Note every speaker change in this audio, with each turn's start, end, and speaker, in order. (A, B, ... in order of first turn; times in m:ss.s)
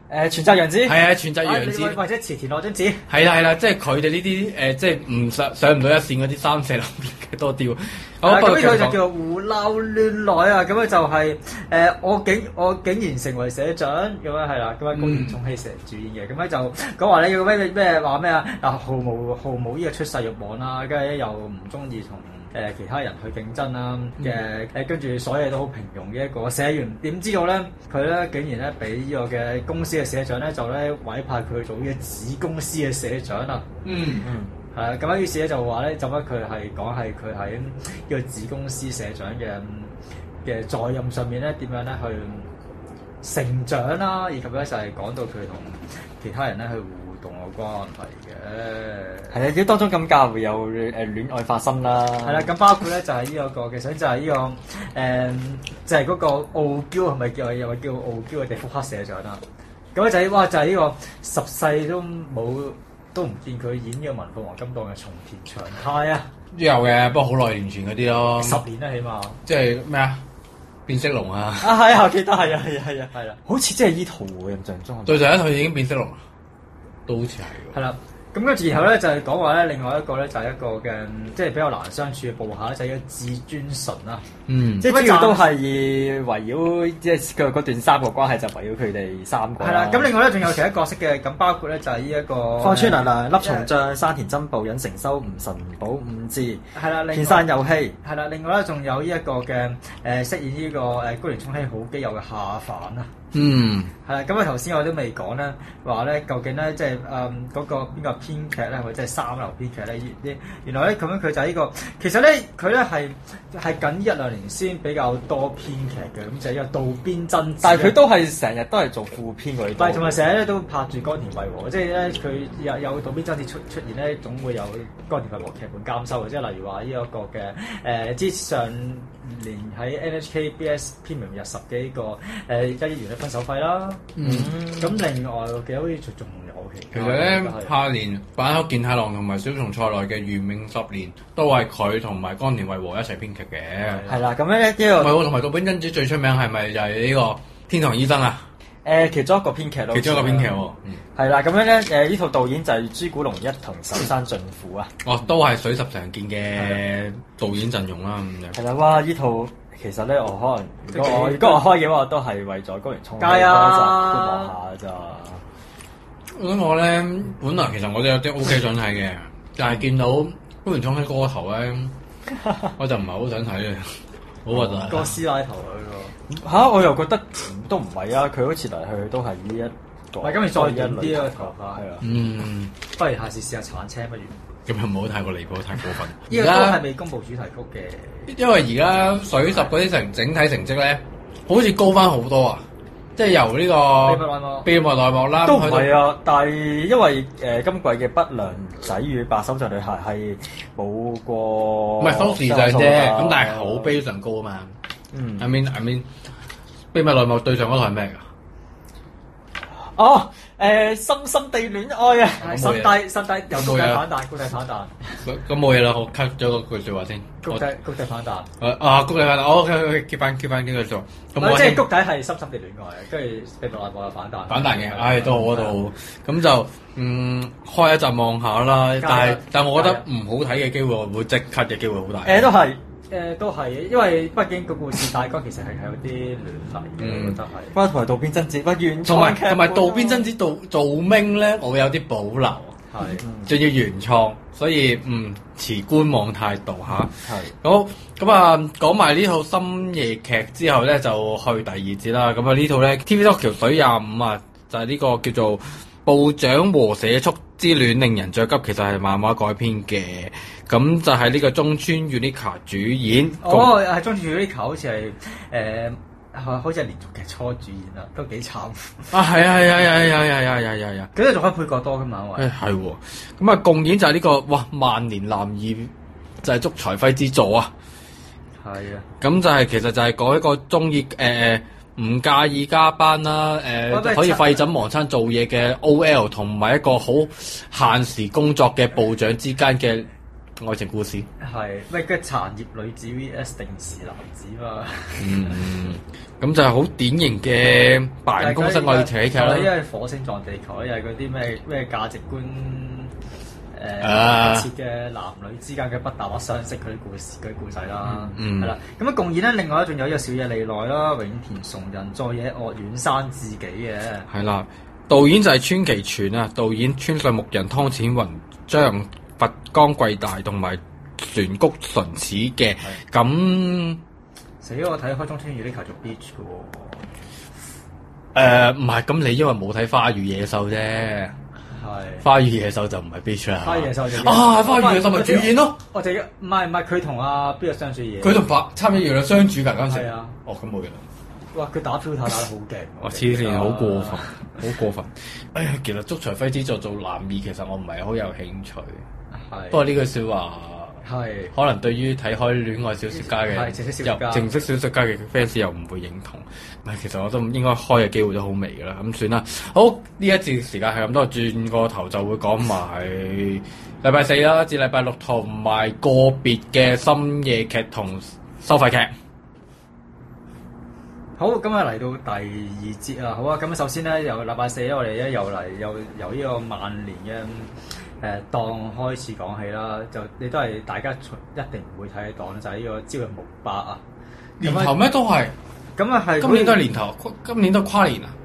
0:00.1-0:01.0 A
0:00.8-0:02.0 B
0:01.4-0:03.0 C
0:03.1-0:09.0 B
0:08.2-0:33.7 C
0:14.9-0:15.4 B
0:33.8-0:34.3 B
0:34.2-0:34.5 A
0:34.7-0:39.9 C
0:40.4-0:42.5 C
0:43.2-0:49.4 C
0:49.3-0:52.5 A
0:52.2-0:59.4 C
1:00.0-1:06.3 C
1:06.5-1:08.6 B
1:08.4-1:09.4 C
1:09.5-1:10.2 B
1:10.9-1:11.8 B
1:11.6-1:15.3 A
1:15.1-1:16.2 B
1:17.1-1:17.8 B
1:17.7-1:24.2 C
1:24.5-1:24.9 B
1:24.8-1:30.1 A
1:24.8-1:25.5 C
1:29.6-1:33.7 C
1:32.6-1:38.0 A
1:36.8-1:43.1 C
1:43.3-1:43.9 B
1:44.0-1:58.0 C
1:57.6-2:00.2 A
1:59.8-2:14.1 C
2:14.2-2:14.6 B
2:14.2-2:15.0 A
2:14.7-2:17.8 C
2:16.9-2:24.0 B
2:23.8-2:24.3 C
2:24.1-2:25.2 A
2:25.0-2:28.4 B
2:28.8-2:30.5 A
2:29.9-2:31.0 B
2:31.2-2:34.9 A
2:35.0-2:38.6 B
2:38.5-2:45.4 A
2:40.9-2:41.8 C
2:43.2-2:44.5 C
2:46.4-2:51.9 B
2:52.4-2:52.7 A
2:52.8-2:53.9 B
2:54.4-2:55.2 B
2:54.5-2:56.1 C
2:56.3-3:02.1 A
3:00.2-3:01.8 C
3:02.0-3:02.7 B
3:03.0-3:04.4 C
3:04.7-3:06.8 B
3:06.3-3:08.3 C
3:08.3-3:12.6 B
3:13.2-3:16.1 B
3:14.0-3:14.7 C
3:15.4-3:23.9 A
3:22.0-3:24.8 B
3:25.1-3:25.5 A
3:25.4-3:26.1 B
3:26.9-3:28.2 B
3:29.7-3:32.5 A
3:32.4-3:35.0 C
3:32.4-3:34.0 B
3:35.2-3:37.7 B
3:37.4-3:38.5 C
3:38.6-3:41.9 B
3:41.4-3:45.8 C
3:44.5-3:52.5 B
3:49.0-3:50.0 C
3:52.2-3:52.8 A
3:53.1-3:57.8 C
3:57.0-3:57.4 B
3:57.7-4:00.3 A
3:59.0-4:02.8 B
4:02.9-4:03.2 C
4:03.0-4:03.5 A
4:03.4-4:23.8 B
4:07.2-4:07.5 A
4:23.4-4:30.1 C
4:29.1-4:31.1 B
4:31.1-4:32.5 C
4:32.4-4:35.9 B
4:36.4-4:37.7 B
4:38.6-4:39.1 C
4:39.2-4:50.1 B
4:43.9-4:44.7 C
4:50.6-4:51.3 B
4:51.4-4:55.6 C
4:55.2-4:59.7 B
4:58.4-5:03.1 C
5:03.7-5:14.3 C
5:04.0-5:04.7 B
5:08.0-5:08.8 B
5:14.3-5:24.0 B
5:24.6-5:27.0 C
5:28.3-5:31.4 B
5:31.7-5:32.2 C
5:32.2-5:35.8 B
5:33.6-5:38.5 C
5:38.2-5:41.0 B
5:39.9-5:40.3 C
5:41.5-5:44.3 C
5:43.0-5:49.0 B
5:49.3-5:49.9 C
5:49.7-5:51.0 B
5:51.0-5:51.5 C
5:51.5-6:09.1 B
5:53.1-5:54.5 C
6:11.4-6:24.0 C
6:24.6-6:25.5 B
6:24.6-6:25.0 C
6:26.0-6:26.8 C
6:26.4-6:28.4 B